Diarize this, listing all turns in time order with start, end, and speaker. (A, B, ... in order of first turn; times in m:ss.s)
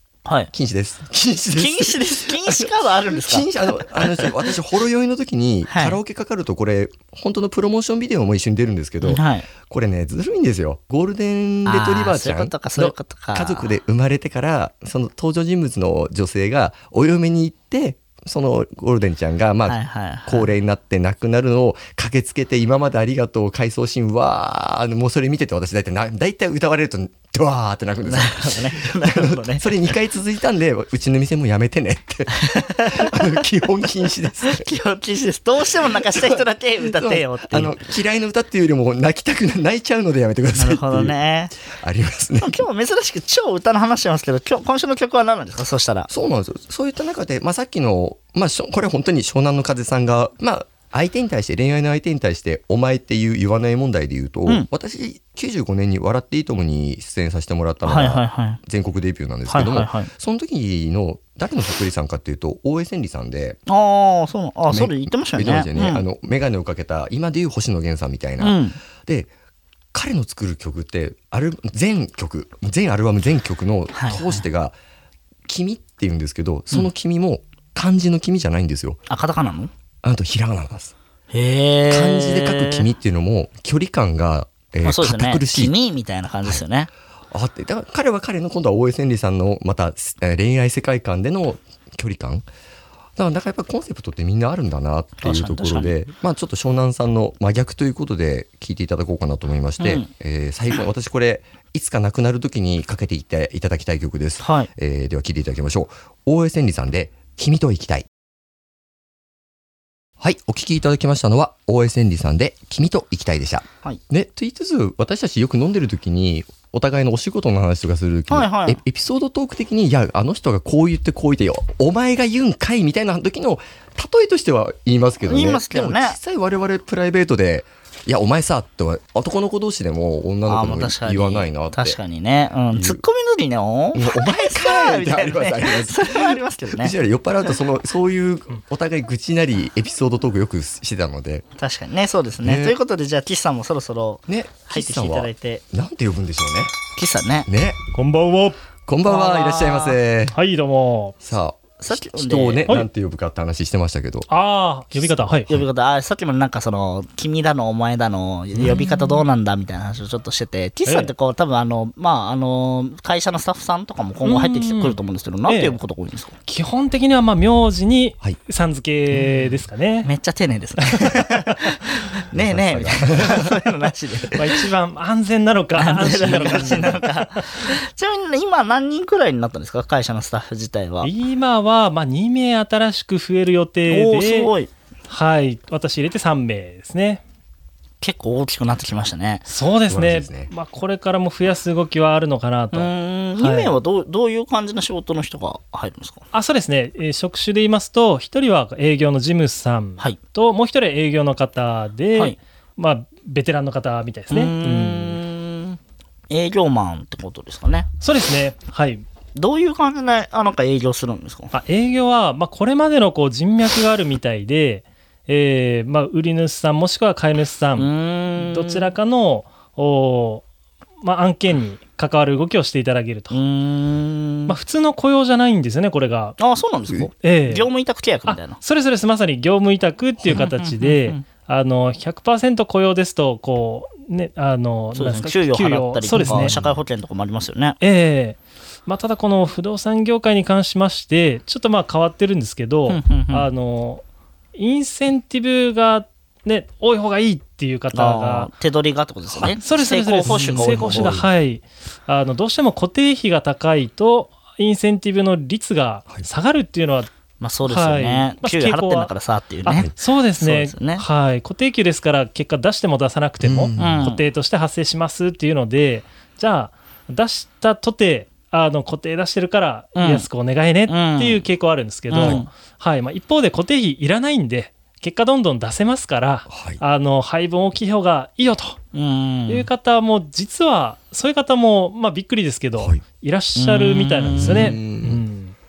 0:00.2-0:00.5 A
0:00.5-0:34.7 B
0:01.6-0:04.5 A
0:05.7-0:06.0 A
0:09.0-0:09.5 A
0:11.6-0:13.7 A
0:19.6-0:20.5 A
0:28.0-0:29.8 A
0:32.4-0:33.4 A
0:34.4-0:37.8 A
0:36.0-0:41.2 B
0:40.5-0:41.5 A
0:41.7-0:42.6 B
0:42.4-0:46.1 A
0:46.1-1:03.6 B
0:57.8-0:58.6 A
0:59.5-1:00.1 A
1:03.7-1:06.0 A
1:04.7-1:09.3 B
1:08.4-1:08.8 A
1:09.9-1:14.8 B
1:13.9-1:14.4 A
1:15.5-1:19.0 B
1:19.1-1:19.7 A
1:20.0-1:20.9 B
1:21.3-1:22.9 A
1:21.9-1:25.7 B
1:24.8-1:26.9 A
1:27.3-1:32.4 B
1:33.2-1:48.1 B
1:35.2-1:35.9 A
1:39.8-1:40.1 A
1:44.4-1:44.7 A
1:50.2-2:12.0 B
1:58.3-1:58.8 A
2:05.2-2:06.2 A
2:10.5-2:16.9 A
2:12.7-2:13.0 B
2:13.9-2:21.4 B
2:21.6-2:25.6 A
2:22.4-2:22.8 B
2:24.3-2:26.8 B
2:27.0-2:27.5 A
2:27.5-2:27.8 B
2:27.9-2:28.6 C
2:28.9-2:30.4 B
2:29.0-2:30.0 A
2:30.3-2:31.1 C
2:31.2-2:34.3 B
2:31.8-2:32.7 A
2:34.3-2:35.5 C
2:34.9-2:35.7 B
2:35.5-2:46.4 A
2:38.7-2:39.2 C
2:40.8-2:41.1 C
2:44.2-2:45.8 C
2:46.4-2:50.1 C
2:50.0-2:54.6 A
2:52.3-2:53.6 B
2:54.3-2:57.7 C
2:55.8-3:01.1 A
2:56.3-2:57.0 B
3:01.0-3:04.5 C
3:03.9-3:04.7 A
3:05.1-3:07.2 C
3:08.0-3:09.4 A
3:09.4-3:13.8 C
3:09.9-3:10.5 B
3:12.7-3:16.2 A
3:16.3-3:25.2 C
3:24.3-3:25.8 A
3:26.3-3:27.9 A
3:28.0-3:29.0 C
3:29.4-3:31.5 A
3:31.5-3:40.4 C
3:37.8-3:38.9 A
3:41.0-3:43.4 C
3:43.3-3:44.5 A
3:44.5-3:46.4 C
3:46.4-3:48.6 A
3:47.2-3:47.7 C
3:48.3-3:56.6 C
3:50.3-3:51.2 A
3:54.9-3:57.8 A
3:56.1-3:56.8 B
3:57.8-4:04.0 C
4:02.9-4:03.5 A
4:04.5-4:08.5 C
4:07.9-4:11.2 A
4:09.6-4:17.1 C
4:10.2-4:11.3 B
4:17.4-4:21.0 A
4:17.6-4:19.1 C
4:19.6-4:38.8 C
4:23.4-4:24.1 B
4:23.8-4:24.2 A
4:30.0-4:30.3 A
4:30.9-4:31.4 A
4:32.1-4:32.5 A
4:32.2-4:32.4 B
4:36.5-4:36.8 B
4:38.9-4:39.7 A
4:39.5-4:45.5 C
4:43.6-4:44.8 A
4:44.3-4:45.2 B